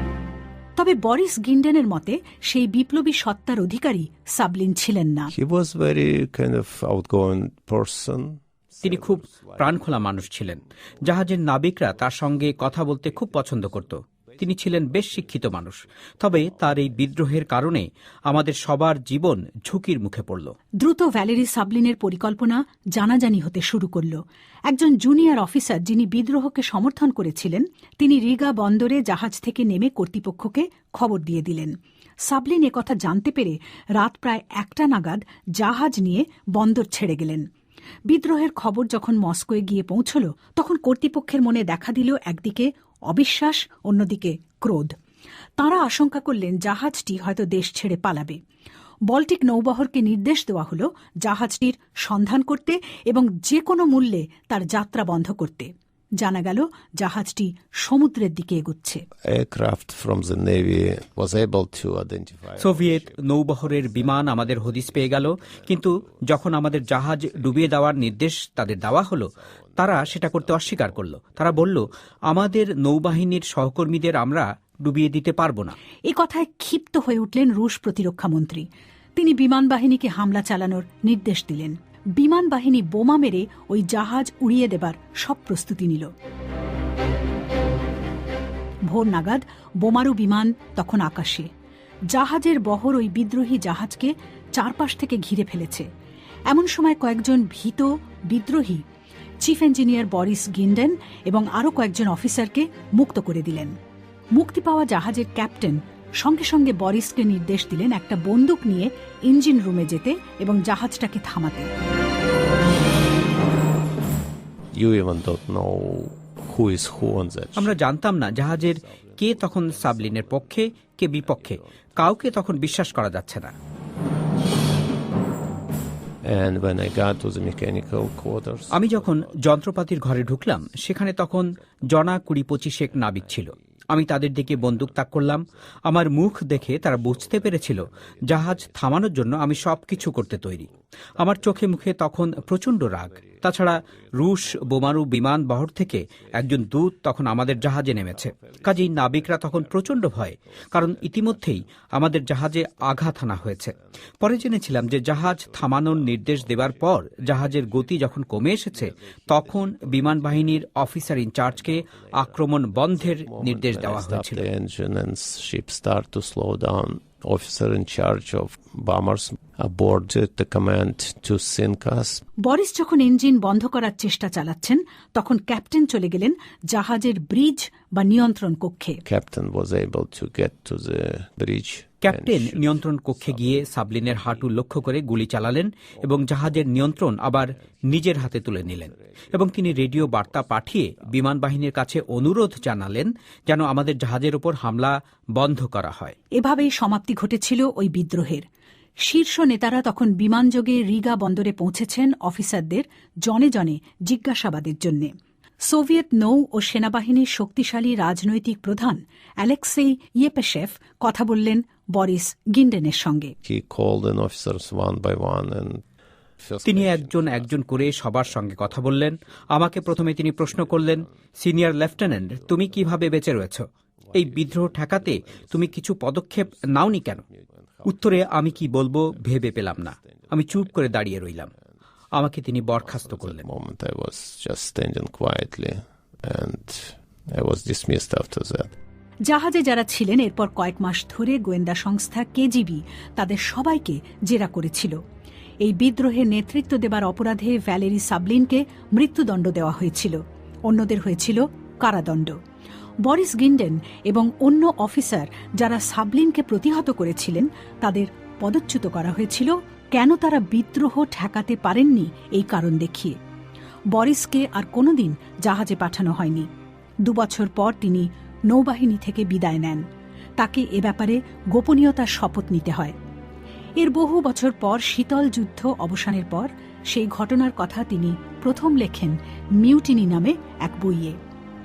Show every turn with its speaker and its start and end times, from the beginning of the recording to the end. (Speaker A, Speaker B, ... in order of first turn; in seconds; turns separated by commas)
Speaker A: 0.8-5.3, Speaker B: 5.3-10.3, Speaker C: 8.8-20.5, Speaker B: 14.4-15.4, Speaker B: 16.8-17.1, Speaker A: 20.8-31.7, Speaker A: 32.3-37.4, Speaker A: 38.1-44.9, Speaker A: 45.6-48.4, Speaker A: 49.1-55.7, Speaker A: 56.2-59.0, Speaker B: 59.3-68.1, Speaker C: 62.6-75.8, Speaker B: 68.7-71.7, Speaker A: 76.1-78.7, Speaker A: 79.2-86.1, Speaker A: 88.9-91.5, Speaker A: 92.1-95.9, Speaker A: 96.5-98.8, Speaker A: 99.4-103.7, Speaker A: 104.3-111.7, Speaker B: 114.8-120.6, Speaker C: 117.6-123.5, Speaker B: 121.2-122.7, Speaker B: 126.2-130.3, Speaker C: 128.7-140.7, Speaker B: 133.1-133.5, Speaker B: 134.5-134.9, Speaker B: 136.6-139.0, Speaker B: 139.5-141.9, Speaker C: 141.2-164.5, Speaker B: 143.0-143.6, Speaker B: 144.4-144.9, Speaker B: 146.4-146.7, Speaker B: 147.6-158.1, Speaker B: 158.7-172.2, Speaker A: 172.4-179.0, Speaker B: 179.1-182.8, Speaker C: 182.0-196.2, Speaker B: 183.4-184.2, Speaker B: 186.1-187.4, Speaker B: 188.0-190.7, Speaker A: 196.4-198.4, Speaker A: 199.1-205.1, Speaker A: 205.7-213.3, Speaker B: 213.4-215.8, Speaker B: 216.4-218.7, Speaker C: 216.7-227.2, Speaker B: 220.2-221.0, Speaker B: 222.3-223.0, Speaker B: 224.1-225.7, Speaker B: 226.8-230.4, Speaker C: 227.8-231.5, Speaker C: 232.2-233.4, Speaker B: 232.8-238.7, Speaker A: 239.3-245.0, Speaker A: 245.6-252.4, Speaker A: 253.1-263.1, Speaker A: 263.9-266.5, Speaker A: 267.1-269.8, Speaker A: 270.4-272.9, Speaker A: 273.8-281.2